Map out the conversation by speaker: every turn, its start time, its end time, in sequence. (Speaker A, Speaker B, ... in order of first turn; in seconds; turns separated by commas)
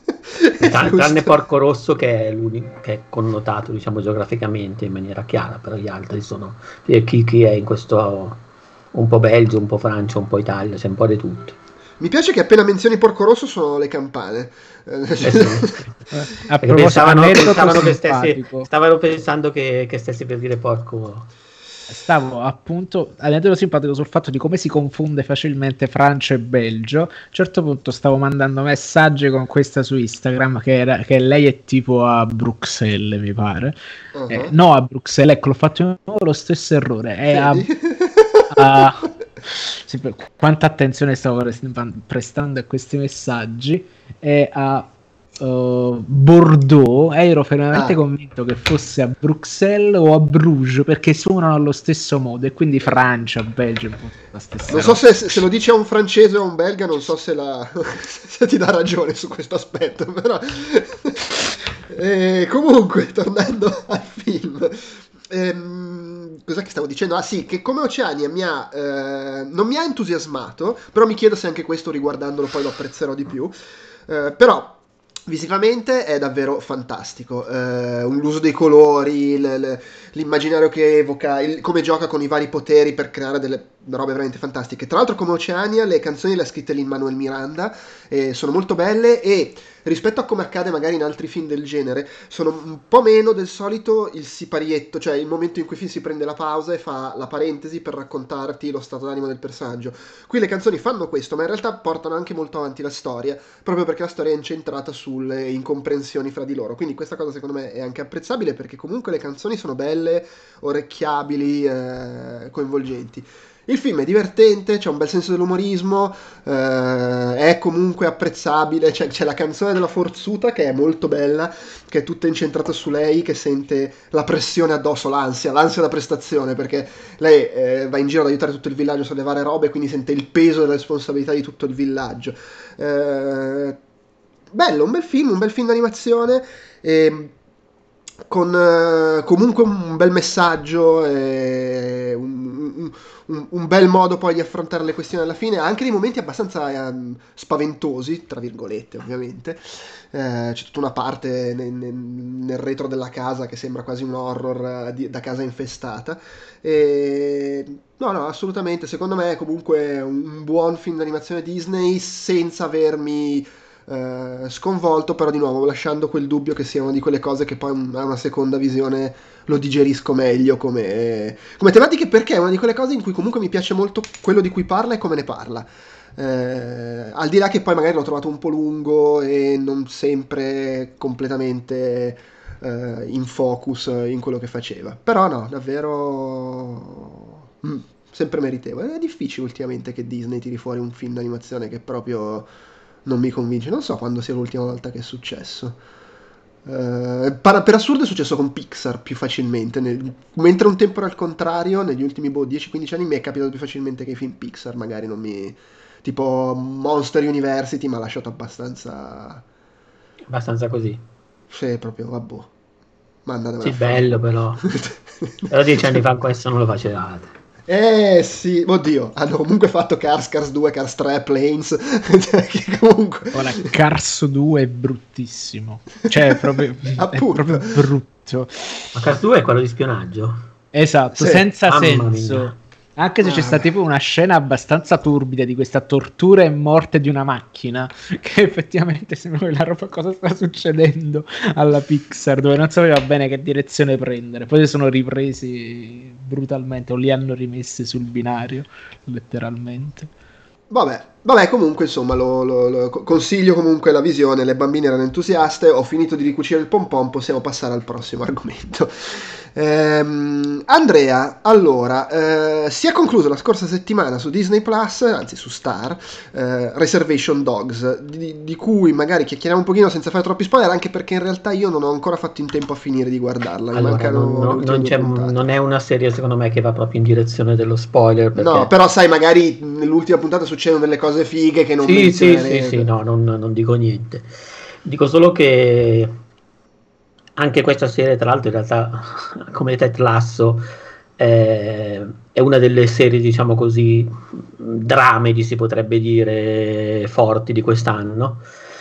Speaker A: 0.3-1.4, Speaker B: 0.6-11.6, Speaker A: 12.0-15.8, Speaker B: 15.2-16.0, Speaker C: 16.1-18.7, Speaker B: 16.6-21.3, Speaker C: 21.9-33.8, Speaker A: 34.1-34.5, Speaker C: 34.3-37.7, Speaker A: 37.3-38.9, Speaker C: 38.5-55.0, Speaker A: 47.7-48.0, Speaker A: 54.7-73.5, Speaker A: 74.1-133.8, Speaker A: 134.5-137.3, Speaker A: 138.3-192.5, Speaker A: 193.0-195.8, Speaker A: 196.6-209.4, Speaker B: 210.3-211.0, Speaker A: 211.5-212.5, Speaker A: 213.2-216.0, Speaker B: 213.6-214.7, Speaker B: 215.5-217.3, Speaker A: 217.7-223.7, Speaker C: 223.3-228.9, Speaker A: 226.9-227.8, Speaker B: 228.9-230.4, Speaker C: 230.7-250.1, Speaker A: 231.2-231.4, Speaker B: 231.6-232.6, Speaker A: 233.2-233.7, Speaker A: 250.7-275.4, Speaker B: 273.7-278.7, Speaker A: 278.4-282.9, Speaker B: 281.8-284.3, Speaker B: 284.8-286.1, Speaker B: 287.4-290.6, Speaker B: 291.2-298.4